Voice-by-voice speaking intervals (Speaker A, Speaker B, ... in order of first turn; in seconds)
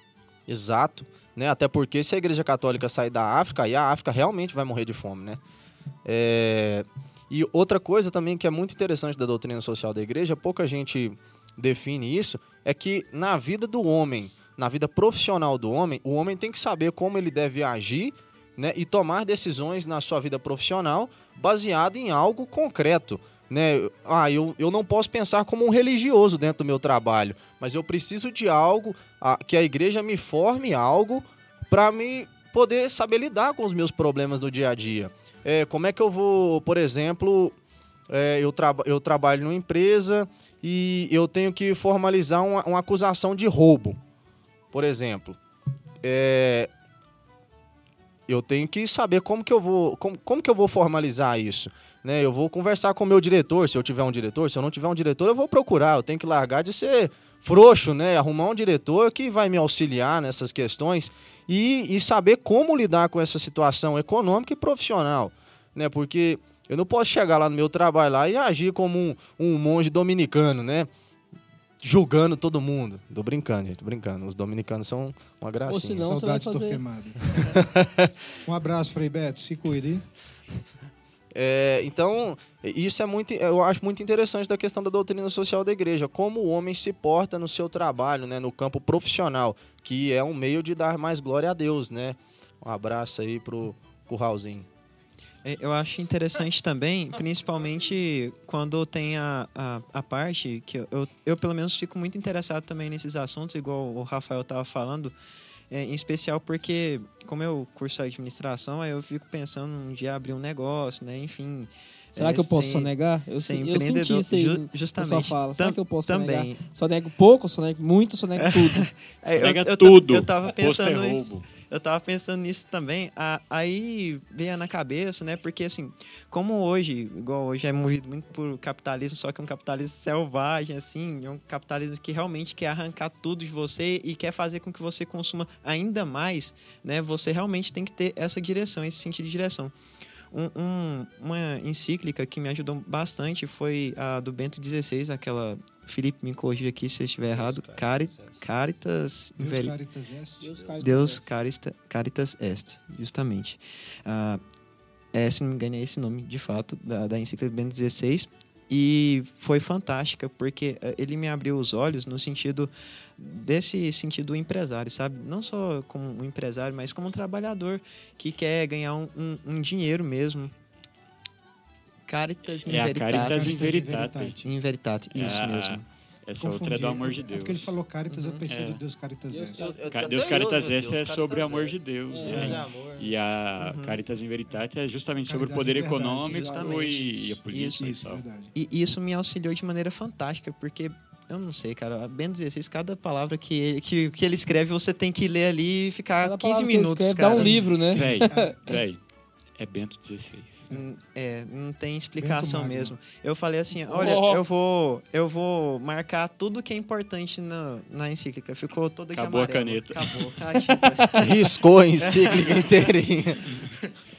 Speaker A: 0.5-5.4, 6.0-37.5, 38.1-44.0, 44.7-45.4, 46.0-46.7, 48.3-70.9, 71.8-76.1, 77.3-78.1, 81.3-94.7, 147.2-148.4, 179.5-183.1, 211.2-213.4
Speaker B: 75.7-76.8, 112.2-118.8, 150.4-151.3, 179.3-179.9, 182.1-182.5, 196.2-198.7, 203.9-204.4, 210.7-211.1
Speaker C: 76.0-77.6, 78.5-80.0, 149.4-150.6, 172.7-174.5, 176.4-179.7, 182.3-182.6, 185.3-186.7, 187.8-188.5, 197.3-198.6, 202.2-202.9
Speaker D: 95.4-105.1, 105.7-116.6, 118.4-139.7, 140.3-149.8, 150.8-154.4, 155.1-170.5, 172.1-173.6, 174.4-175.8, 178.1-178.4, 183.6-184.0, 186.2-188.0, 188.5-197.7, 200.7-211.5, 212.0-212.9, 213.5-213.8
Speaker E: 119.3-121.5, 172.6-174.4, 175.1-177.7, 178.5-178.8, 179.9-188.2, 197.9-199.0, 199.6-200.7, 209.1-210.3